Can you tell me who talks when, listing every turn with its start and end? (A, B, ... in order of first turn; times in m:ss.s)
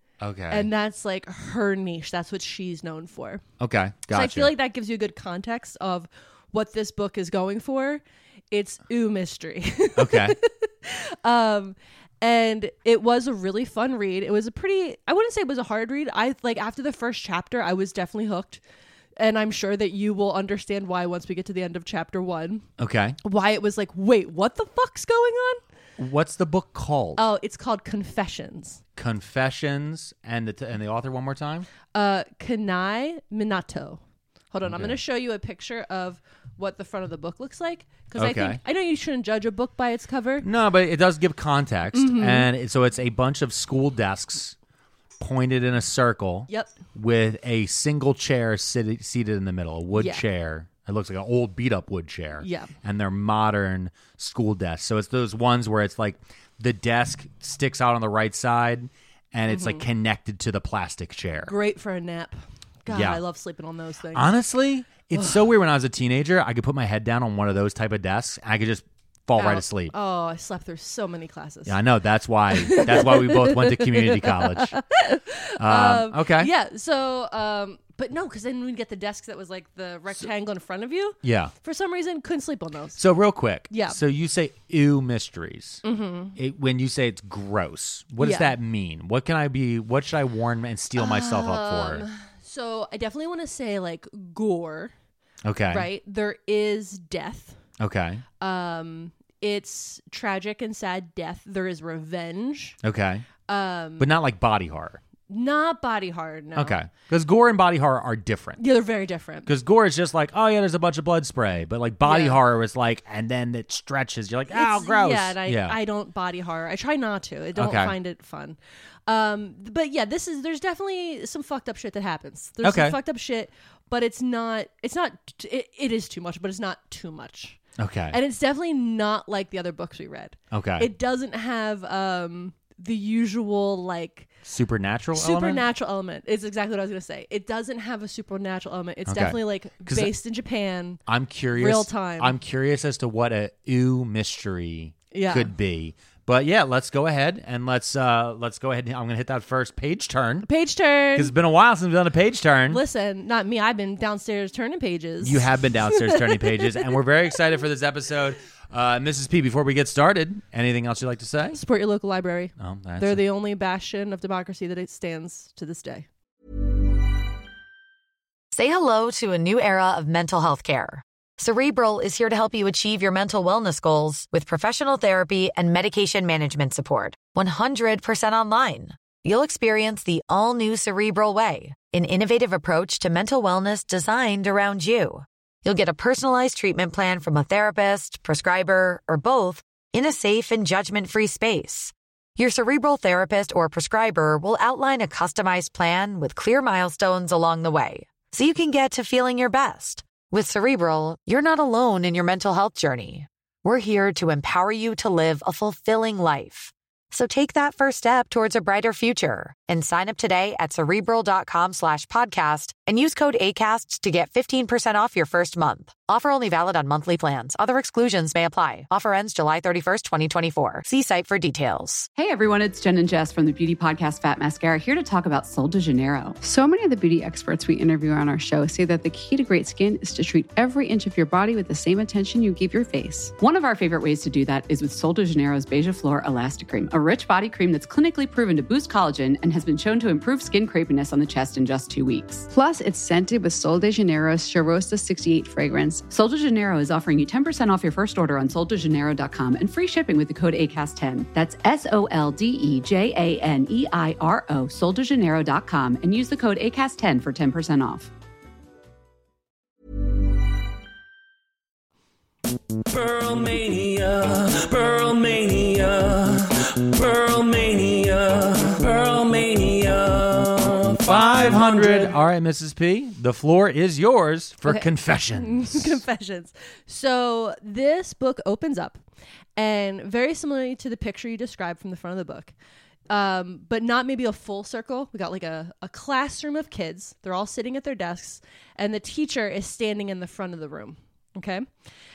0:00.2-0:00.7 A
0:00.5-0:03.4 B
0:03.6-0:04.5 A
0:04.1-0:18.6 B
0:10.0-0:10.4 A
0:19.2-0:22.7 B
0:22.8-0:23.2 A
0:23.2-0:25.6 B
0:26.0-0:27.3 A
0:27.2-0:28.8 B
0:29.0-0:31.7 A
0:31.9-0:34.0 B
0:34.5-0:40.5 B
0:34.7-0:35.0 A
0:38.2-0:38.6 A
0:40.4-0:44.6 A
0:41.9-0:42.5 B
0:45.2-1:01.5 A
0:46.5-0:46.7 B
0:49.9-0:50.2 B
0:52.4-0:52.7 B
0:59.5-0:59.8 B
1:01.5-1:04.3 B
1:02.9-1:03.2 A
1:04.1-1:09.9 A
1:05.1-1:05.5 B
1:09.4-1:11.8 B
1:11.7-1:14.8 A
1:12.5-1:23.1 B
1:15.6-1:16.5 A
1:21.2-1:21.5 A
1:23.0-1:25.8 A
1:23.7-1:24.0 B
1:25.8-1:26.4 B
1:26.4-1:32.0 A
1:28.2-1:28.6 B
1:31.0-1:34.9 B
1:35.4-1:35.9 A
1:35.7-1:37.6 B
1:37.8-1:38.2 A
1:38.4-1:42.8 B
1:42.8-1:43.2 A
1:43.5-1:44.1 B
1:44.0-1:45.0 A
1:45.3-1:46.8 B
1:46.6-1:48.6 A
1:48.6-1:49.5 B
1:49.5-1:55.8 A
1:52.0-1:52.4 B
1:54.5-2:14.3 B
1:57.6-1:58.0 A
2:02.6-2:03.0 A
2:07.8-2:08.2 A
2:10.5-2:10.9 A
2:14.4-2:15.6 A
2:15.2-2:21.0 B
2:19.1-2:20.1 A
2:21.1-2:30.5 A
2:21.6-2:22.4 B
2:25.1-2:25.5 B
2:30.4-2:31.3 B
2:31.2-2:32.8 A
2:32.7-2:37.0 B
2:35.2-2:41.6 A
2:41.5-2:46.1 B
2:42.6-2:43.2 A
2:48.5-3:42.1 C
3:42.2-3:46.4 D
3:46.4-3:53.4 E
3:53.4-4:02.5 D
4:02.5-4:06.1 E
4:06.1-4:18.1 D
4:22.9-4:32.1 F
4:31.0-4:36.0 A
4:34.6-4:39.0 B
4:39.6-4:42.5 B
4:43.1-4:51.6 B